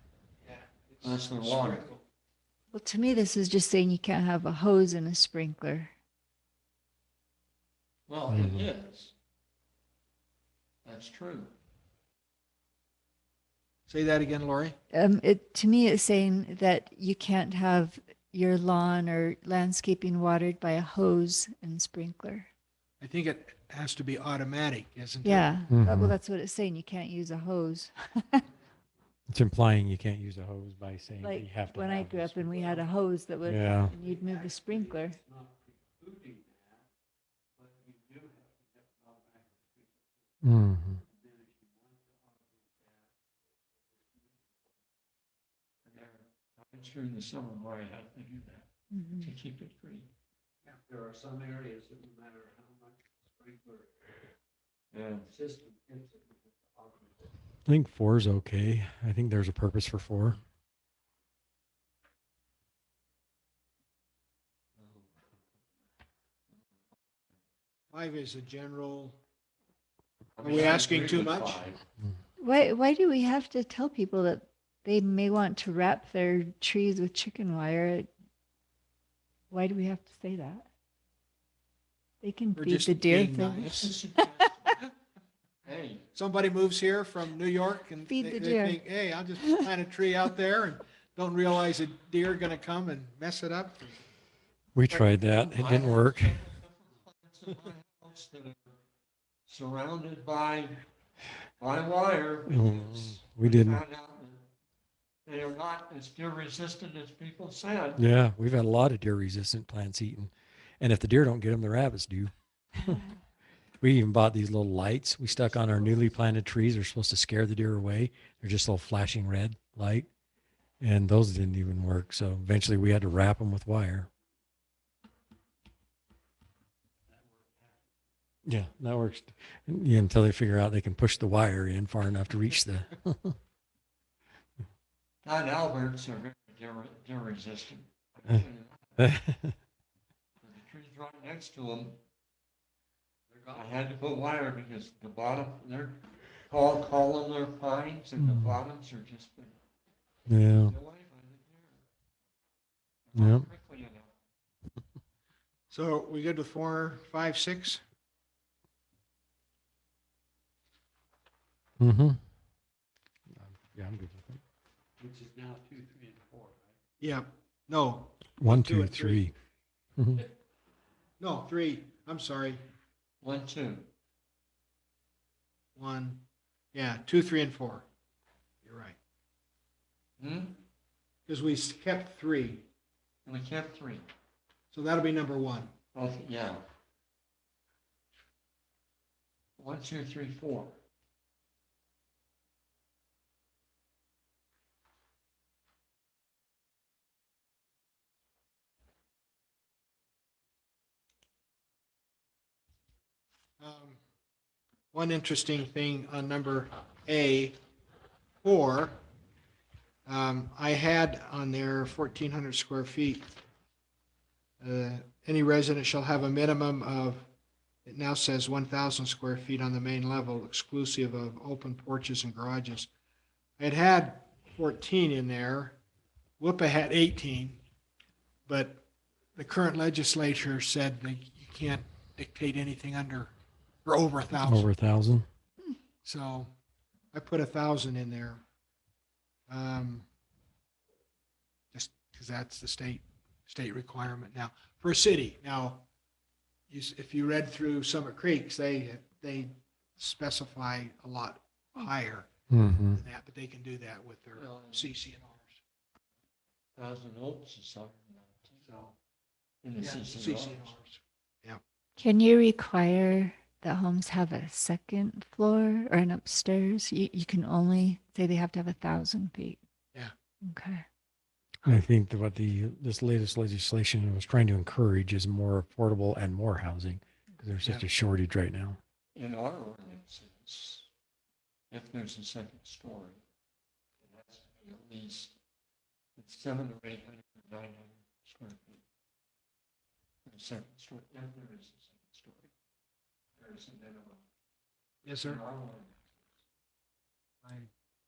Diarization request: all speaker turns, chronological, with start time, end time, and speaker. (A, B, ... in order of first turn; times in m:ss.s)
0:00.4-0:00.8 A
0:01.0-0:01.9 B
0:02.7-0:05.9 C
0:08.1-0:09.1 B
0:08.3-0:08.7 D
0:10.8-0:11.5 B
0:13.9-0:14.8 A
0:14.9-0:22.5 C
0:23.0-0:25.6 A
0:25.2-0:28.4 C
0:25.7-0:26.2 D
0:29.3-0:32.6 D
0:31.2-0:35.2 C
0:33.4-0:33.9 D
0:35.7-0:36.8 E
0:37.6-0:40.3 E
0:40.4-0:41.0 D
0:41.6-0:42.9 E
0:45.8-0:50.1 B
0:48.9-0:49.3 C
0:50.9-0:53.9 E
0:54.9-0:55.3 B
0:55.5-0:56.2 E
0:56.8-0:57.1 E
0:57.6-1:00.4 D
1:07.9-1:09.2 A
1:10.4-1:11.8 B
1:10.4-1:11.6 A
1:12.4-1:18.1 C
1:19.5-1:20.7 C
1:22.2-1:24.2 C
1:22.5-1:23.9 A
1:23.5-1:24.9 B
1:25.6-1:26.1 B
1:26.1-1:34.0 A
1:28.1-1:28.8 C
1:34.7-1:36.4 D
1:34.9-1:38.8 B
1:39.5-1:40.8 B
1:41.6-1:44.5 B
1:42.5-1:43.8 D
1:45.2-1:48.0 B
1:48.0-1:53.0 D
1:53.8-2:00.1 D
2:00.8-2:04.1 D
2:07.1-2:07.7 E
2:08.4-2:13.4 D
2:15.2-2:19.1 B
2:19.0-2:19.6 D
2:20.4-2:22.0 B
2:23.5-2:29.6 B
2:28.2-2:28.6 D
2:30.3-2:30.7 D
2:30.6-2:31.8 B
2:33.1-2:34.1 B
2:33.1-2:33.5 D
2:35.7-2:37.8 A
2:41.8-2:42.2 D
2:43.3-2:44.4 D
2:45.0-2:46.7 E
2:47.0-2:49.3 A
2:48.4-2:49.3 D
2:50.0-2:50.3 D
2:51.2-2:52.6 A
2:53.2-2:53.9 B
2:55.8-2:57.8 A
2:58.6-2:59.0 A
3:00.2-3:00.6 B
3:01.3-3:02.7 A
3:03.2-3:04.1 B
3:04.7-3:05.7 A
3:05.9-3:06.6 B
3:09.6-3:10.8 B
3:23.6-3:24.0 A
3:24.9-3:27.6 A
3:28.4-3:29.0 A
3:30.0-3:33.4 A
3:34.6-3:37.3 A
3:37.8-3:42.9 A
3:43.6-3:45.8 A
3:46.4-3:47.6 A
3:48.5-3:53.3 A
3:53.8-3:54.7 A
3:54.3-3:55.2 D
3:56.0-3:56.5 A
3:57.1-3:58.4 A
3:59.5-4:00.0 A
4:01.7-4:05.8 A
4:06.7-4:12.3 A
4:12.5-4:13.0 D
4:12.9-4:15.6 A
4:14.4-4:15.0 B
4:16.8-4:18.7 B
4:18.6-4:18.9 A
4:19.6-4:20.7 B
4:19.8-4:21.6 A
4:22.0-4:29.6 C
4:30.4-4:30.8 C
4:31.6-4:38.8 D
4:37.6-4:37.9 A
4:39.1-4:40.9 B
4:41.7-4:43.2 B
4:44.0-4:45.4 B
4:46.2-4:48.8 B
4:50.2-4:52.5 B
4:53.4-4:54.2 B
4:55.0-4:55.4 A
4:55.2-4:56.1 B